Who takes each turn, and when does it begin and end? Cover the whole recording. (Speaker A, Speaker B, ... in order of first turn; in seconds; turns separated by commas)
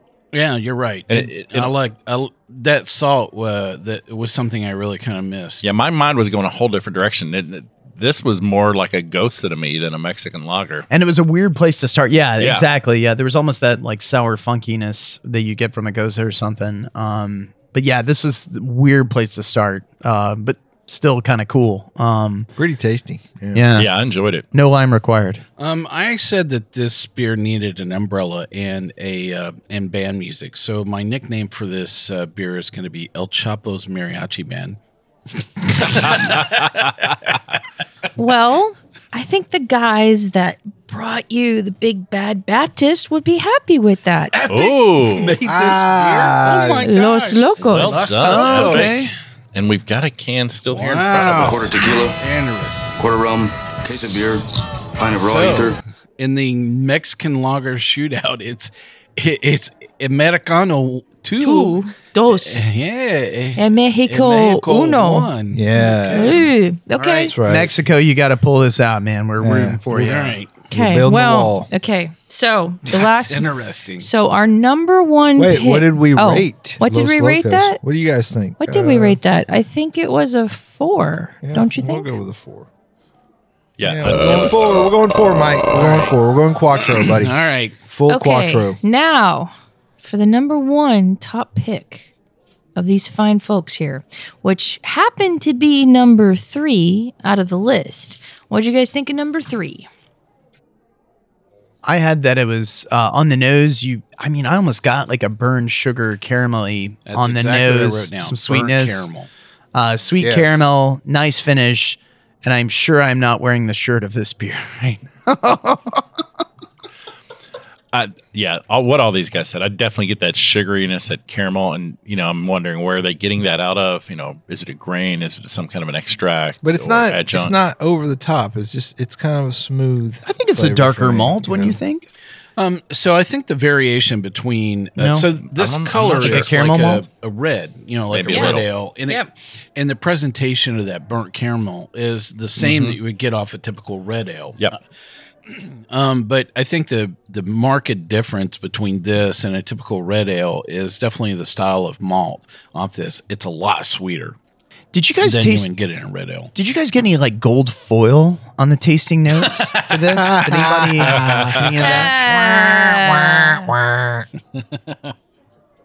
Speaker A: 0.3-5.7, Speaker B: 1.1-1.7, Speaker B: 5.6-10.9, Speaker C: 10.9-22.5, Speaker B: 12.4-12.7, Speaker D: 22.6-23.6, Speaker C: 23.5-23.9, Speaker B: 23.8-24.4, Speaker C: 24.5-25.4, Speaker A: 25.6-34.8, Speaker A: 35.7-37.1, Speaker E: 38.2-44.3, Speaker A: 44.3-49.1, Speaker B: 44.5-45.4, Speaker D: 45.4-46.9, Speaker E: 46.9-48.0, Speaker B: 47.7-51.8, Speaker C: 48.2-49.1, Speaker A: 50.7-53.0, Speaker F: 51.4-52.1, Speaker F: 53.0-54.4, Speaker F: 55.0-55.8, Speaker A: 55.1-66.5, Speaker E: 61.4-62.6, Speaker E: 63.6-65.3, Speaker D: 65.5-66.4, Speaker E: 66.1-67.3, Speaker A: 67.0-67.3, Speaker D: 67.3-67.7, Speaker C: 67.4-70.4, Speaker D: 69.4-70.1, Speaker A: 69.9-70.7, Speaker E: 70.7-73.5, Speaker D: 70.7-71.7, Speaker A: 72.9-74.1, Speaker E: 74.0-77.8, Speaker D: 75.4-79.2, Speaker E: 78.6-82.1, Speaker D: 81.4-82.7, Speaker B: 83.8-84.9, Speaker D: 83.8-87.3, Speaker A: 84.1-84.6, Speaker A: 85.7-86.1, Speaker A: 86.8-87.8, Speaker D: 87.9-88.8, Speaker E: 88.1-92.1, Speaker E: 92.8-99.9, Speaker C: 101.8-109.1, Speaker A: 107.1-109.3, Speaker C: 109.7-116.1, Speaker D: 110.2-110.6, Speaker B: 117.9-127.6, Speaker D: 126.6-131.8, Speaker C: 130.2-132.1, Speaker A: 132.6-144.8, Speaker C: 135.0-135.3, Speaker B: 135.4-136.5, Speaker C: 136.2-137.1, Speaker B: 138.1-138.7, Speaker E: 138.3-139.3, Speaker B: 142.6-143.0, Speaker A: 145.5-154.4, Speaker C: 154.9-155.7, Speaker A: 155.2-156.5, Speaker C: 156.5-162.2, Speaker D: 160.1-161.7, Speaker E: 161.8-163.7, Speaker D: 163.8-164.2, Speaker A: 164.6-165.0